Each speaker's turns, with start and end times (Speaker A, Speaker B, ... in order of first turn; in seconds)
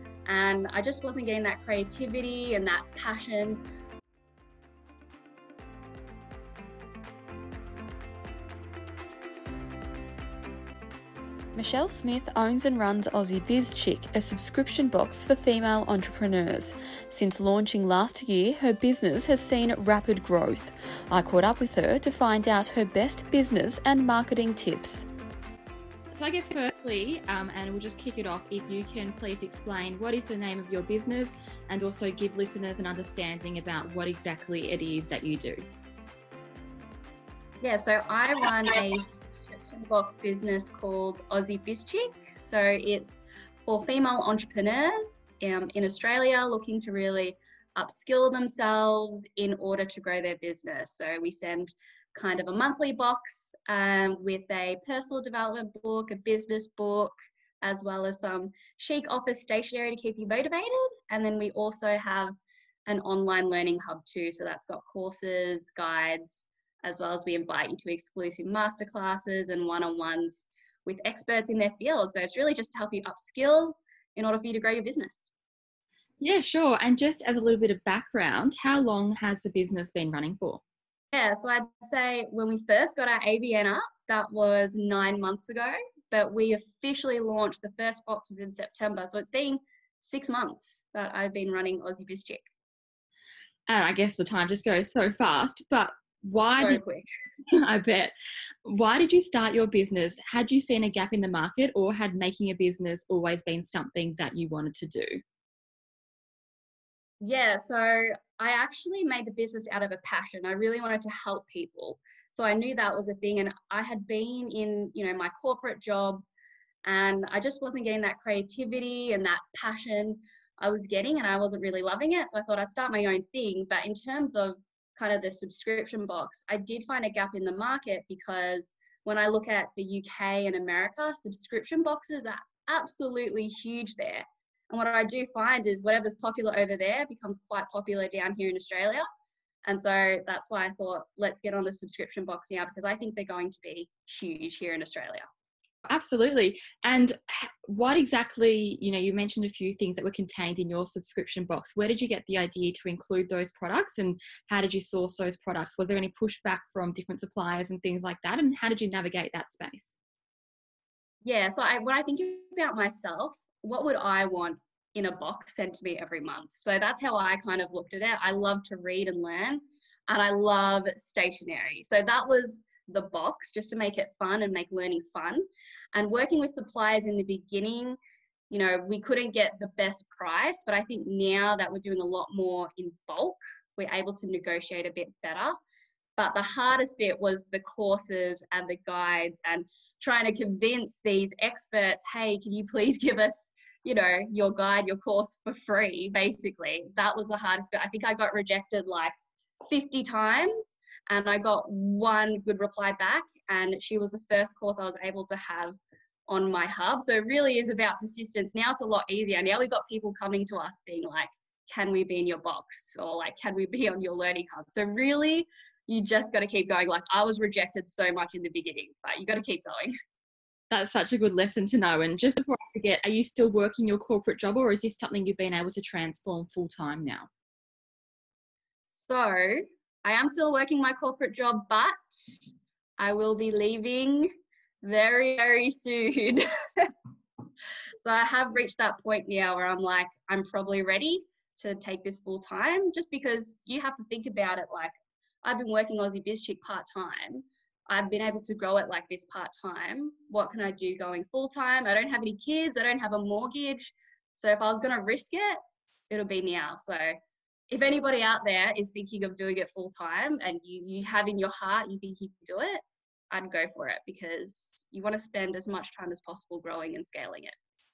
Speaker A: 0.3-3.6, 37.6-62.4, 62.9-75.3, 81.1-92.5, 96.6-97.1, 107.2-116.3, 116.8-139.1, 139.7-145.3, 161.2-178.0, 178.5-185.6, 186.2-199.1, 199.7-205.8, 206.3-219.9, 228.9-234.3, 234.8-236.9, 238.0-244.9, 245.4-255.6, 256.1-257.1, 257.7-267.6
Speaker B: 11.6-25.1
Speaker C: 26.1-35.6, 76.2-80.6, 93.7-96.8, 97.5-98.1, 98.7-105.2, 145.9-160.0, 220.7-227.3